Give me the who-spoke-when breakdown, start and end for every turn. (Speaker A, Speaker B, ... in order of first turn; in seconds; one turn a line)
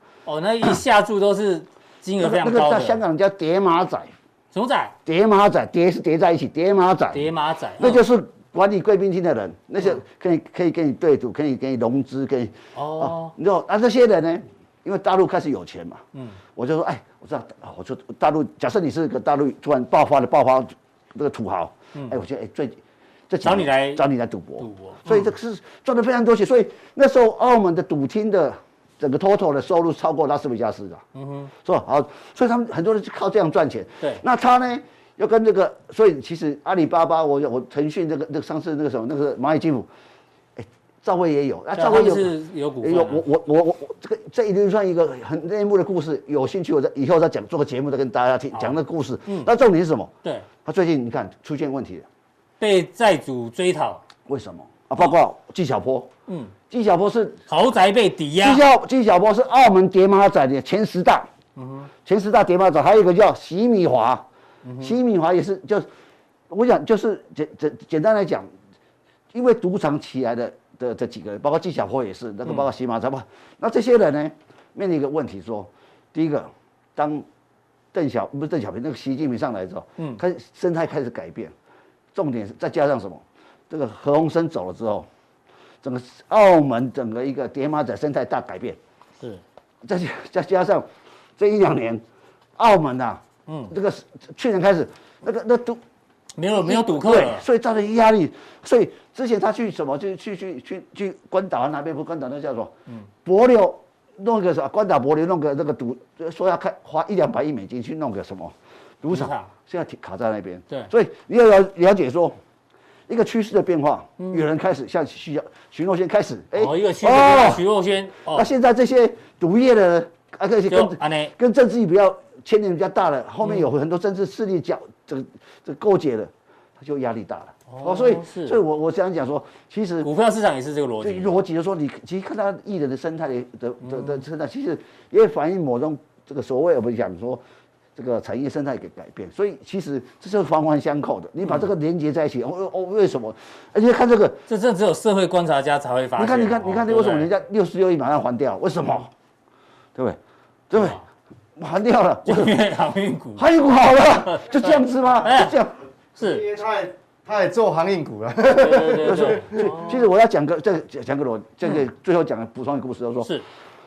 Speaker A: 0.2-3.0
Speaker B: 2.2-4.1
Speaker A: 4.5-4.9
Speaker B: 5.0-7.3
Speaker A: 7.1-8.0
Speaker B: 7.8-16.0
Speaker A: 12.7-13.3
Speaker B: 16.5-31.0
Speaker A: 23.4-24.0
Speaker A: 24.6-25.3
Speaker A: 31.1-31.5
Speaker B: 31.6-39.9
Speaker B: 40.6-50.1
Speaker A: 41.7-43.2
Speaker A: 48.5-49.5
Speaker B: 50.6-52.0
Speaker A: 52.6-54.0
Speaker B: 54.3-56.1
Speaker A: 56.3-56.5
Speaker B: 56.7-57.4
Speaker A: 57.5-58.6
Speaker B: 58.4-61.3
Speaker A: 61.5-61.9
Speaker B: 62.0-64.2
Speaker A: 64.6-64.9
Speaker B: 64.8-65.9
Speaker B: 66.5-68.5
Speaker B: 69.3-77.2
Speaker B: 77.9-81.5
Speaker B: 82.1-85.1
Speaker B: 85.8-88.8
Speaker B: 89.8-90.9
Speaker B: 91.4-92.0
Speaker B: 92.6-95.8
Speaker A: 93.5-93.7
Speaker A: 96.4-97.5
Speaker B: 96.6-112.4
Speaker A: 109.1-109.5
Speaker B: 113.1-117.6
Speaker A: 114.2-114.5
Speaker A: 116.5-118.5
Speaker B: 118.3-130.1
Speaker A: 120.7-121.3
Speaker A: 123.4-123.7
Speaker A: 127.7-128.6
Speaker A: 130.0-131.3
Speaker B: 131.0-137.4
Speaker A: 133.8-134.2
Speaker B: 137.9-144.4
Speaker A: 144.5-147.3
Speaker B: 146.2-149.1
Speaker B: 150.7-151.0
Speaker A: 150.7-151.0
Speaker B: 151.6-152.6
Speaker A: 152.2-153.4
Speaker B: 153.4-155.7
Speaker A: 154.3-155.6
Speaker C: 156.2-159.6
Speaker A: 156.2-156.4
Speaker A: 158.5-160.0
Speaker B: 158.8-163.3